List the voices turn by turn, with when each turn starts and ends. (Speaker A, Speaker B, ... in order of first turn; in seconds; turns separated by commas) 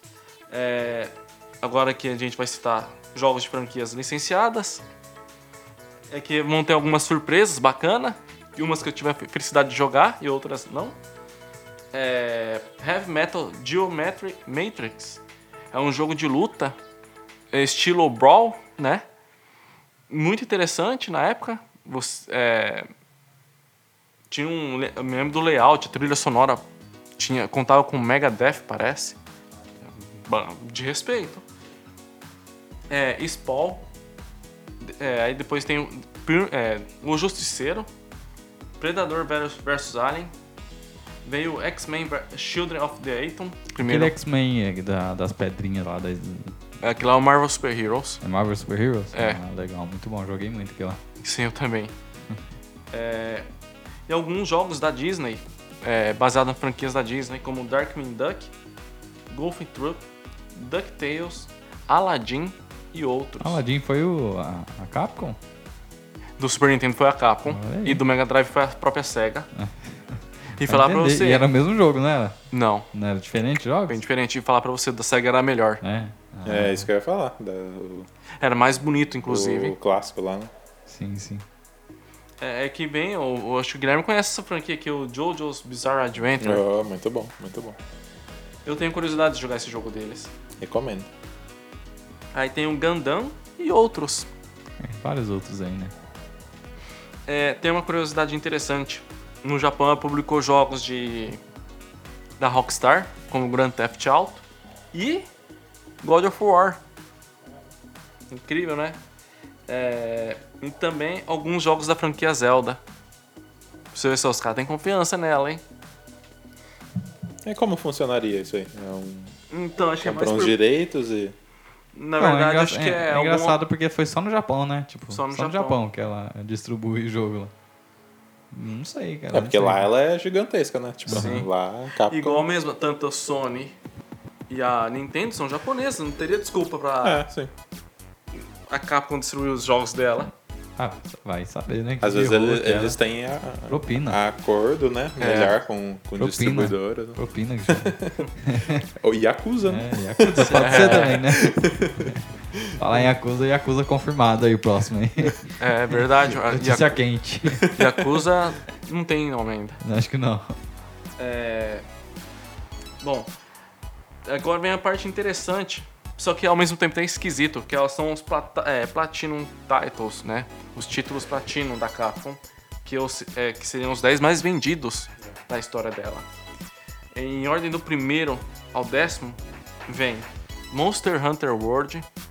Speaker A: 0.5-4.8, Speaker A: 6.1-11.0, Speaker A: 11.9-16.8, Speaker A: 17.5-19.1, Speaker A: 20.1-22.9, Speaker A: 24.3-26.6, Speaker A: 27.2-29.2, Speaker A: 29.9-31.4, Speaker A: 32.9-33.9, Speaker A: 34.8-37.9, Speaker A: 38.8-40.3, Speaker A: 41.2-44.1, Speaker B: 43.8-46.6, Speaker A: 46.8-48.2, Speaker B: 48.2-51.0, Speaker A: 49.1-49.4, Speaker A: 51.2-52.0, Speaker A: 52.9-53.5, Speaker A: 54.1-58.5, Speaker A: 59.3-63.6, Speaker B: 63.4-65.4, Speaker A: 66.4-69.5, Speaker B: 67.5-68.0, Speaker B: 69.5-72.4, Speaker A: 70.6-71.5, Speaker A: 72.5-72.9, Speaker B: 72.9-74.0, Speaker A: 73.9-75.8, Speaker B: 75.8-76.9, Speaker C: 76.5-78.1, Speaker A: 78.4-79.8, Speaker C: 79.3-80.5, Speaker B: 80.9-81.5, Speaker A: 82.4-86.6, Speaker C: 86.4-87.8, Speaker A: 88.7-90.3, Speaker C: 90.6-91.1, Speaker A: 92.3-94.3, Speaker B: 94.8-95.9, Speaker A: 97.3-101.4, Speaker A: 102.4-105.3, Speaker A: 106.0-106.8, Speaker A: 108.3-109.0, Speaker A: 109.7-112.8, Speaker A: 113.9-115.6, Speaker C: 117.5-119.3, Speaker A: 119.5-120.6, Speaker C: 120.0-121.3, Speaker A: 122.0-123.6, Speaker B: 122.2-127.5, Speaker A: 125.1-125.8, Speaker B: 128.5-129.9, Speaker C: 129.3-132.4, Speaker B: 131.1-131.4, Speaker A: 131.1-131.5, Speaker A: 132.0-133.8, Speaker A: 134.5-137.2, Speaker C: 137.0-137.5, Speaker A: 138.7-140.3, Speaker B: 140.8-143.0, Speaker C: 142.0-148.2, Speaker B: 143.7-144.2, Speaker A: 145.2-145.5, Speaker B: 146.2-148.9, Speaker C: 149.0-152.9, Speaker B: 149.7-152.2, Speaker A: 150.4-151.2, Speaker B: 152.8-155.5, Speaker A: 155.6-157.0, Speaker B: 156.4-157.7, Speaker A: 157.7-159.8, Speaker B: 159.8-160.6, Speaker A: 161.2-161.8, Speaker A: 163.0-163.3, Speaker A: 164.2-176.3, Speaker A: 177.1-182.1